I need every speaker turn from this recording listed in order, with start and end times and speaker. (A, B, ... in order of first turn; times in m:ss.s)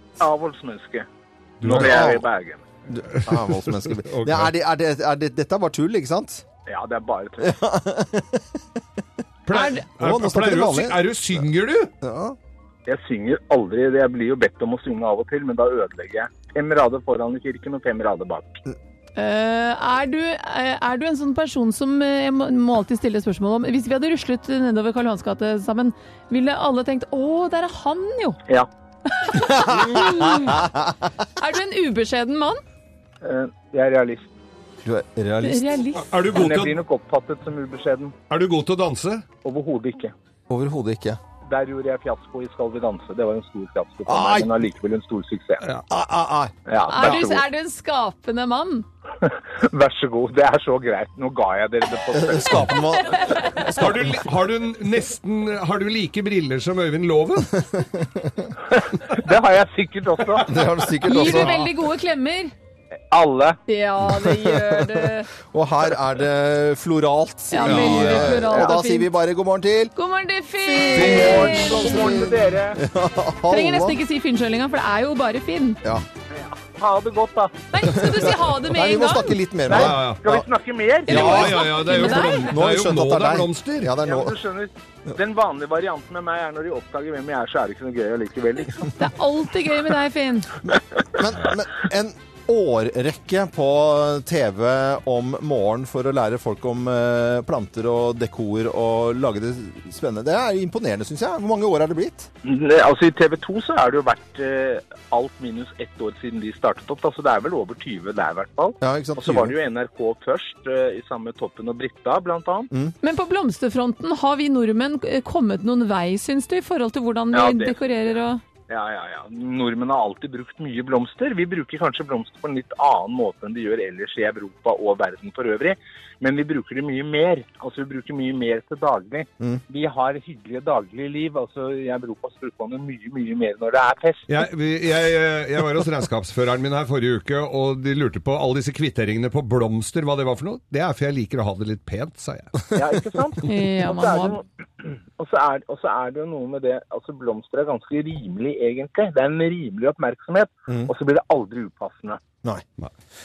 0:00.2-0:01.0 A
0:01.6-0:02.1 B
0:01.6-0:02.6 A
0:01.6-0:02.2 C
0:02.9-0:06.4 C
0:03.1-0:04.5 B
0:06.7-0:07.6 A
0:07.4-0:08.6 C
0:09.5-0:11.9 B
0:09.5-0:09.9 D
0:09.9-0:11.4 C
0:12.0-0:12.4 C
0:12.8-0:18.6 A
0:19.2-0:28.4 D
0:29.1-0:30.7 D
0:29.4-0:30.9 C
0:31.4-0:32.6 D
0:33.2-0:34.3 A
0:34.8-0:35.8 C
0:35.4-0:36.1 D
0:36.0-0:36.8 B
0:36.3-0:38.1 A
0:38.3-0:39.2 B
0:39.4-0:40.1 A
0:40.5-0:41.2 C
0:41.4-0:45.6 A
0:44.0-0:44.6 C
0:45.9-0:47.2 C
0:46.7-0:47.4 A
0:46.8-0:48.8 D
0:49.2-0:52.9 A
0:52.1-0:54.2 C
0:53.0-0:53.6 D
0:53.6-0:57.6 B
0:57.7-0:58.5 C
0:58.7-1:00.5 A
1:00.4-1:01.6 C
1:01.0-1:02.5 D
1:01.1-1:01.7 B
1:03.1-1:03.6 A
1:03.7-1:05.3 D
1:04.0-1:09.9 C
1:07.5-1:09.1 D
1:07.6-1:08.4 B
1:09.9-1:12.2 D
1:10.6-1:14.0 C
1:10.9-1:12.8 A
1:11.0-1:11.4 B
1:13.5-1:15.8 D
1:16.3-1:17.6 A
1:17.7-1:19.3 D
1:17.8-1:20.4 C
1:19.7-1:21.4 A
1:19.7-1:20.2 B
1:21.1-1:23.9 B
1:21.1-1:24.4 C
1:21.1-1:22.5 D
1:24.0-1:28.9 A
1:29.0-1:30.5 D
1:30.7-1:42.3 C
1:42.4-1:52.7 A
1:48.8-1:49.6 C
1:53.0-1:58.4 D
1:57.3-1:57.8 A
1:58.7-2:14.2 A
2:14.3-2:22.6 B
2:22.7-2:32.2 A
2:23.4-2:24.4 D